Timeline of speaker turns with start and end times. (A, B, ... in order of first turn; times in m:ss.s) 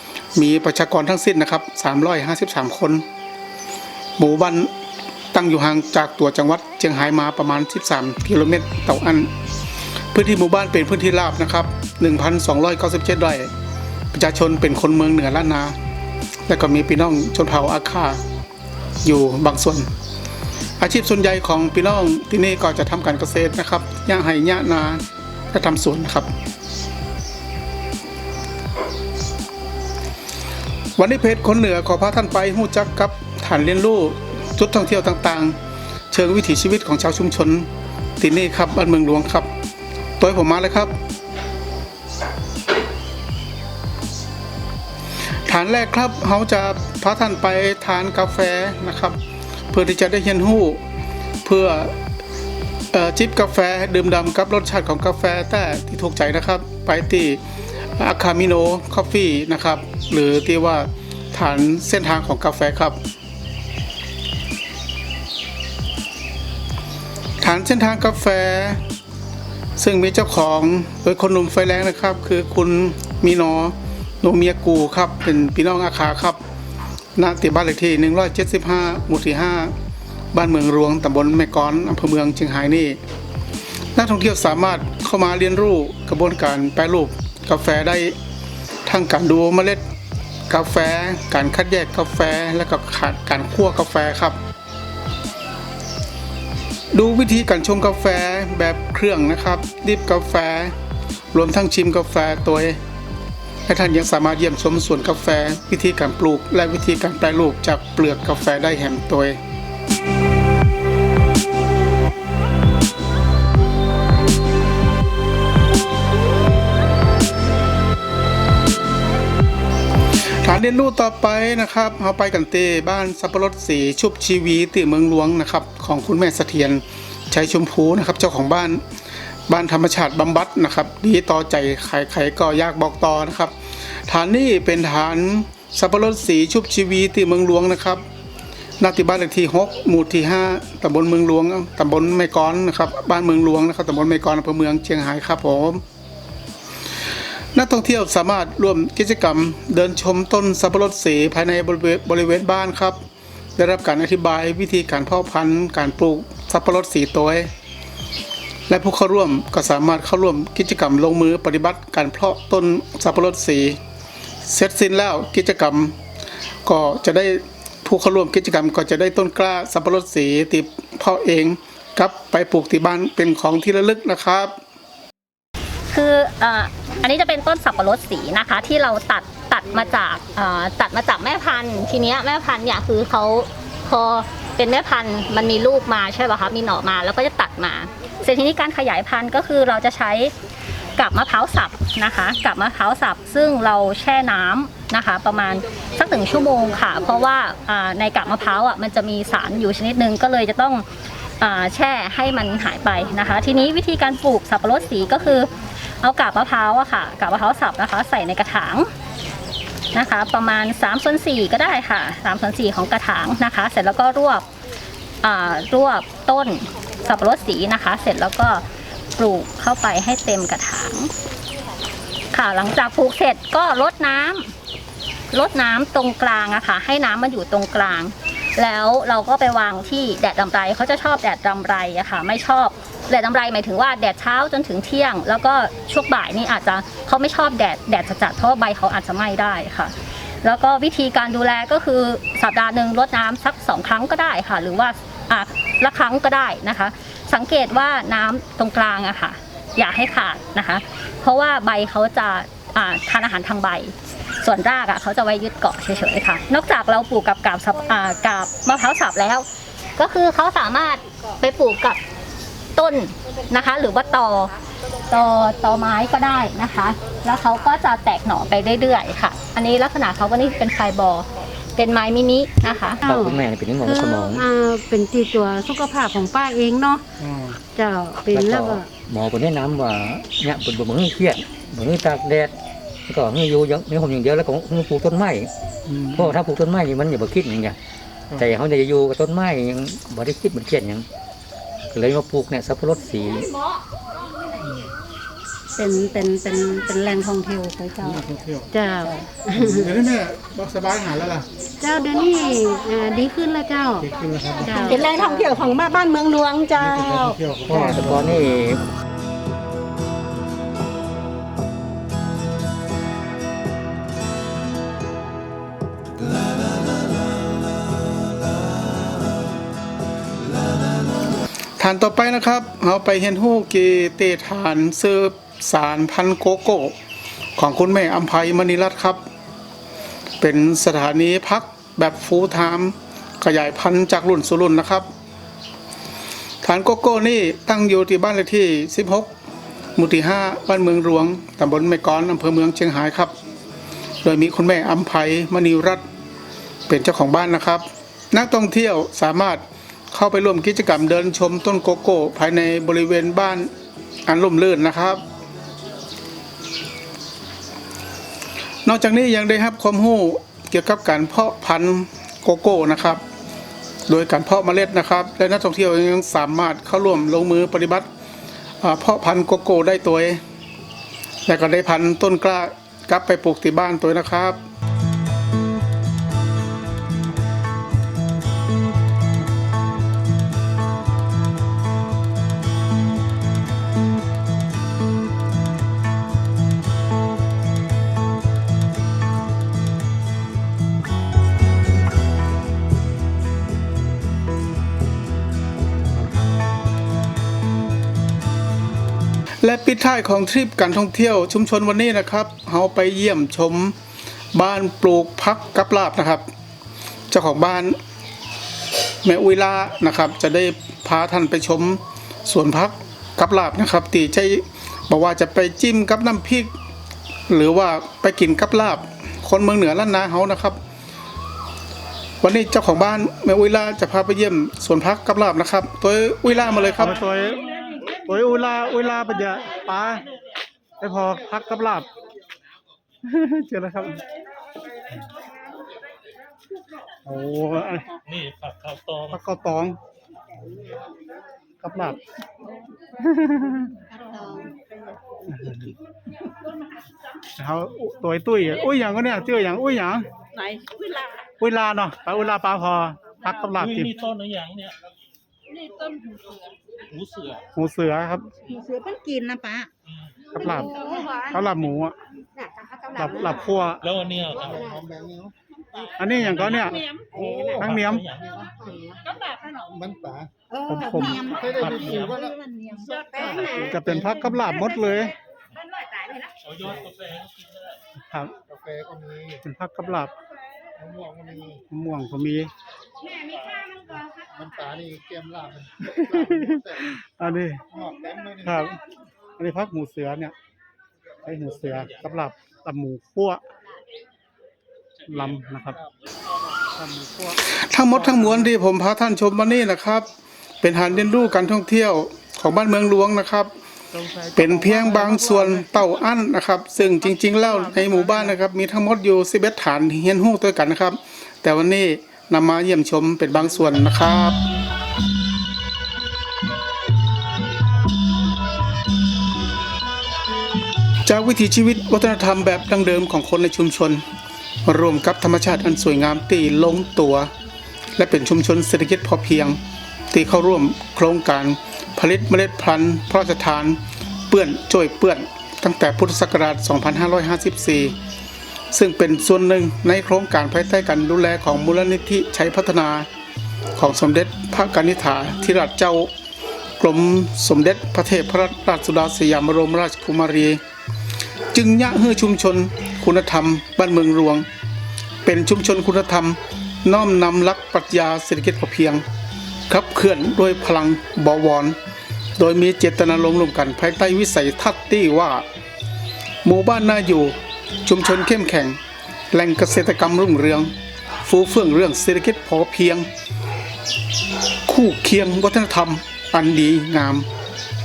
0:00.3-0:03.0 A
0:04.2-0:04.7 A
0:05.3-0:09.3 A
0:10.1-0:13.5 A
0:14.1-0:15.8 A
0:16.5-0:18.2 A
0:19.0-0:19.9 A
0:20.8-0:26.3 A
0:31.0-0:35.6 A
0:36.1-0:37.7 A
0:38.2-0:39.5 A
0:40.2-0:40.9 A
0:45.5-0:49.2 A
0:49.7-0:50.8 A
0:51.4-0:51.9 A
0:52.9-0:57.4 A
0:58.0-1:03.0 A
1:07.4-1:08.8 A
1:09.8-1:16.4 A
1:17.2-1:19.7 A
1:20.3-1:23.0 A
1:23.9-1:28.1 A
1:28.9-1:29.8 A
1:30.5-1:34.4 A
1:36.9-1:40.7 A
1:41.3-1:42.8 A
1:43.7-1:49.4 A
2:00.4-2:08.8 A
2:09.5-2:13.5 A
2:14.1-2:18.0 A
2:18.8-2:25.8 A
2:27.6-2:33.0 A
2:33.6-2:37.5 A
2:38.7-2:43.8 A
2:44.4-2:46.0 A
2:46.6-2:54.6 A
2:55.9-3:10.3 B
3:11.0-3:20.8 B
3:21.4-3:25.5 B
3:26.0-3:28.9 B
3:29.9-3:34.4 B
3:35.2-3:38.6 B
3:39.2-3:41.1 B
3:42.3-3:44.5 B
3:45.3-4:19.4 B
4:20.0-4:22.0 B
4:22.8-4:24.5 B
4:25.1-4:33.0 B
4:33.0-4:37.0 C
4:33.1-4:34.4 D
4:37.2-4:37.6 A
4:37.7-4:38.9 C
4:38.3-4:42.6 D
4:43.1-4:45.5 D
4:45.9-4:46.3 A
4:46.1-4:47.8 D
4:48.4-4:51.1 D
4:51.9-4:53.5 D
4:55.8-4:59.9 C
4:58.1-4:58.7 A
4:59.5-5:01.5 A
5:01.8-5:04.1 C
5:04.0-5:04.9 A
5:04.6-5:05.9 C
5:04.8-5:07.4 E
5:06.8-5:07.1 C
5:06.8-5:08.3 A
5:07.7-5:08.8 D
5:21.8-5:26.9 A
5:27.6-5:29.3 A
5:30.4-5:35.1 A
5:36.6-5:39.3 A
5:40.0-5:43.3 A
5:44.2-5:46.0 A
5:46.9-5:53.7 A
5:54.3-5:55.2 A
5:58.8-6:03.2 A
6:04.1-6:08.1 A
6:08.8-6:10.4 A
6:11.5-6:14.6 A
6:39.6-6:44.0 A
6:44.5-6:46.5 A
6:47.3-6:48.0 A
6:49.2-6:56.7 A
6:57.5-7:00.8 A
7:02.4-7:10.2 A
7:11.0-7:12.1 A
7:13.2-7:14.2 A
7:17.2-7:18.2 A
7:18.3-7:19.3 F
7:19.3-7:20.0 A
7:21.8-7:22.2 A
7:23.2-7:23.9 A
7:25.5-7:25.9 A
7:27.6-7:30.3 A
7:31.6-7:34.1 A
7:33.8-7:35.0 F
7:37.1-7:37.6 F
7:37.8-7:38.5 A
7:38.7-7:39.9 E
7:40.5-7:42.2 A
7:43.1-7:44.1 A
7:44.0-7:44.8 F
7:44.4-7:45.5 G
7:46.2-7:47.1 A
7:46.4-7:46.8 F
7:47.4-7:48.0 G
7:47.7-7:48.3 A
7:47.8-7:48.4 F
7:48.5-7:48.8 G
7:49.8-7:50.5 G
7:50.9-7:51.6 A
7:51.1-7:51.4 E
7:51.4-7:52.6 G
7:51.6-7:52.4 F
7:53.2-7:53.9 G
7:53.6-7:55.3 A
7:56.6-7:57.8 F
7:58.3-7:58.5 A
7:58.7-7:59.6 G
7:59.6-8:00.3 A
8:01.0-8:01.8 G
8:01.9-8:02.7 A
8:04.4-8:07.1 G
8:06.3-8:07.8 A
8:07.9-8:08.8 G
8:08.6-8:09.0 A
8:09.6-8:10.5 A
8:11.4-8:13.6 A
8:15.3-8:16.0 A
8:17.2-8:20.3 A
8:20.8-8:34.6 A
8:41.2-8:44.2 A
8:44.8-8:47.5 A
8:48.2-8:49.8 A
8:50.3-8:58.2 A
8:58.9-9:03.3 A
9:04.0-9:06.3 A
9:07.0-9:10.8 A
9:11.7-9:14.7 A
9:15.4-9:19.2 A
9:19.9-9:22.0 A
9:22.6-9:25.6 A
9:26.6-9:29.0 A
9:29.5-9:33.3 A
9:34.9-9:37.5 A